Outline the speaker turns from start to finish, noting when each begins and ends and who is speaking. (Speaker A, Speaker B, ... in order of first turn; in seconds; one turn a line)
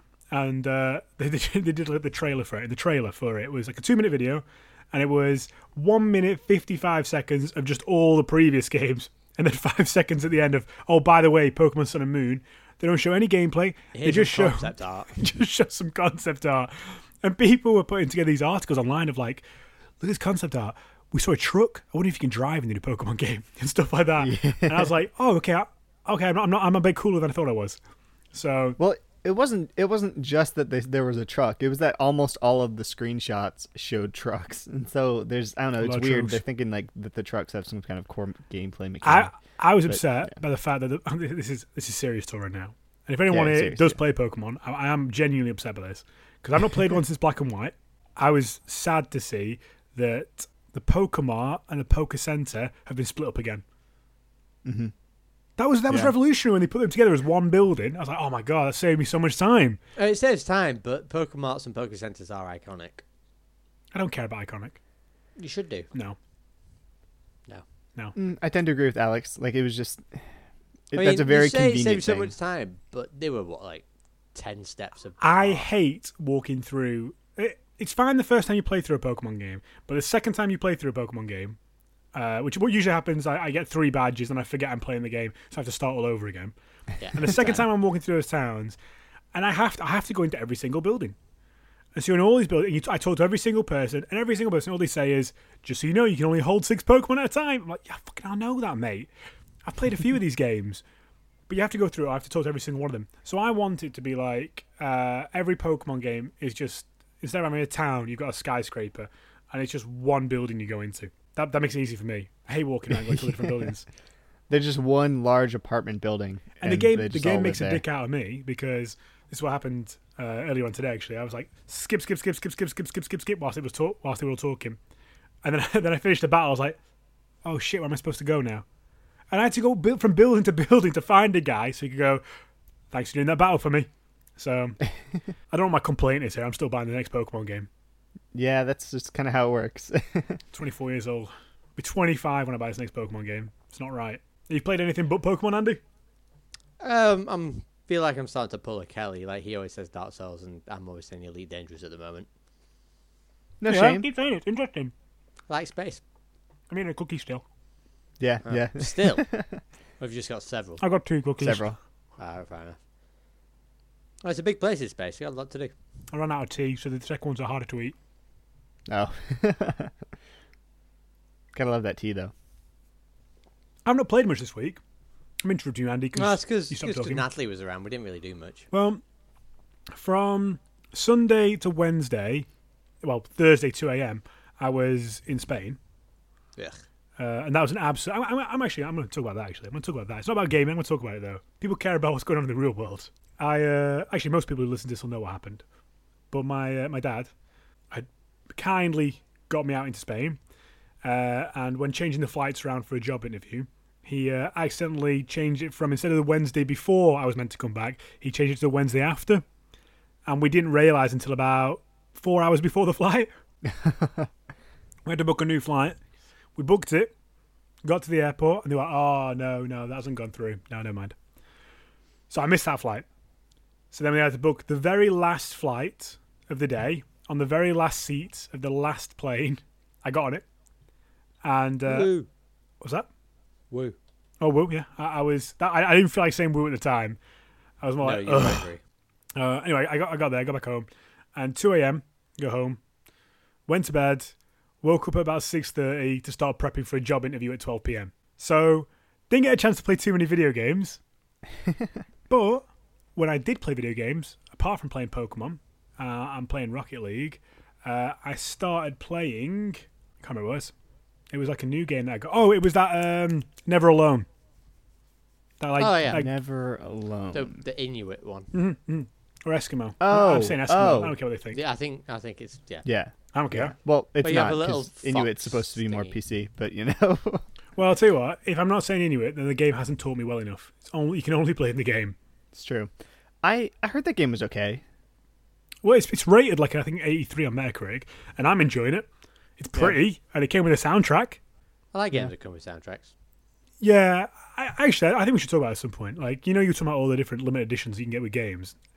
Speaker A: 0.3-19.4
Speaker B: 13.9-15.2
Speaker A: 20.0-27.8
Speaker C: 24.2-24.9
Speaker A: 28.3-28.8
Speaker C: 28.8-39.3
Speaker A: 35.8-36.4
Speaker A: 39.0-53.6
Speaker C: 39.9-40.3
Speaker C: 43.3-44.0
Speaker C: 54.6-54.9
Speaker A: 55.6-59.8
Speaker B: 60.0-63.0
Speaker A: 63.9-64.8
Speaker B: 65.4-65.9
Speaker C: 68.2-70.3
Speaker C: 70.9-72.3
Speaker B: 70.9-75.7
Speaker A: 75.2-81.6
Speaker A: 82.1-86.5
Speaker B: 87.0-87.7
Speaker A: 87.1-88.8
Speaker A: 89.3-91.2
Speaker A: 92.0-99.1
Speaker A: 99.7-100.8
Speaker A: 101.5-113.9
Speaker C: 114.5-117.8
Speaker A: 116.6-124.8
Speaker A: 125.4-126.8
Speaker A: 127.4-128.7
Speaker A: 129.3-132.2
Speaker A: 132.9-134.8
Speaker A: 135.5-137.7
Speaker C: 138.3-140.4
Speaker A: 140.5-145.8
Speaker B: 146.8-152.3
Speaker C: 153.6-154.1
Speaker A: 153.7-154.9
Speaker B: 155.5-156.0
Speaker A: 156.7-157.4
Speaker C: 158.2-159.6
Speaker B: 158.4-159.3
Speaker B: 160.0-160.8
Speaker A: 160.8-161.7
Speaker C: 161.4-161.8
Speaker B: 162.2-162.8
Speaker B: 164.2-165.7
Speaker A: 166.1-167.9
Speaker C: 168.9-169.9
Speaker C: 171.5-172.3
Speaker A: 173.8-174.8
Speaker A: 175.4-177.3
Speaker B: 176.2-178.7
Speaker A: 178.7-179.0
Speaker A: 179.9-182.5
Speaker A: 183.0-185.8
Speaker A: 187.2-195.6
Speaker A: 196.3-197.3
Speaker A: 197.9-200.4
Speaker A: 201.0-209.4
Speaker A: 210.3-213.3
Speaker C: 213.7-214.3
Speaker A: 215.1-216.0
Speaker A: 216.6-217.1
Speaker A: 217.8-221.2
Speaker A: 222.3-223.1
Speaker A: 223.9-230.4
Speaker A: 231.4-232.1
Speaker B: 231.8-232.3
Speaker A: 232.8-233.1
Speaker B: 233.7-234.0
Speaker A: 234.4-237.2
Speaker A: 237.8-238.7
Speaker B: 238.0-238.8
Speaker A: 239.4-242.8
Speaker A: 243.7-251.0
Speaker A: 252.3-260.7
Speaker A: 261.3-264.3
Speaker A: 265.6-266.3
Speaker B: 265.8-266.3
Speaker C: 266.1-267.6
Speaker B: 267.3-268.5
Speaker A: 268.5-271.6
Speaker C: 270.0-271.2
Speaker B: 271.5-272.9
Speaker C: 272.9-277.4
Speaker A: 273.3-273.7
Speaker B: 274.2-276.1
Speaker A: 277.8-282.2
Speaker C: 282.5-282.9
Speaker C: 283.4-284.8
Speaker A: 285.8-289.1
Speaker A: 289.6-291.4
Speaker B: 291.9-293.1
Speaker A: 293.8-298.8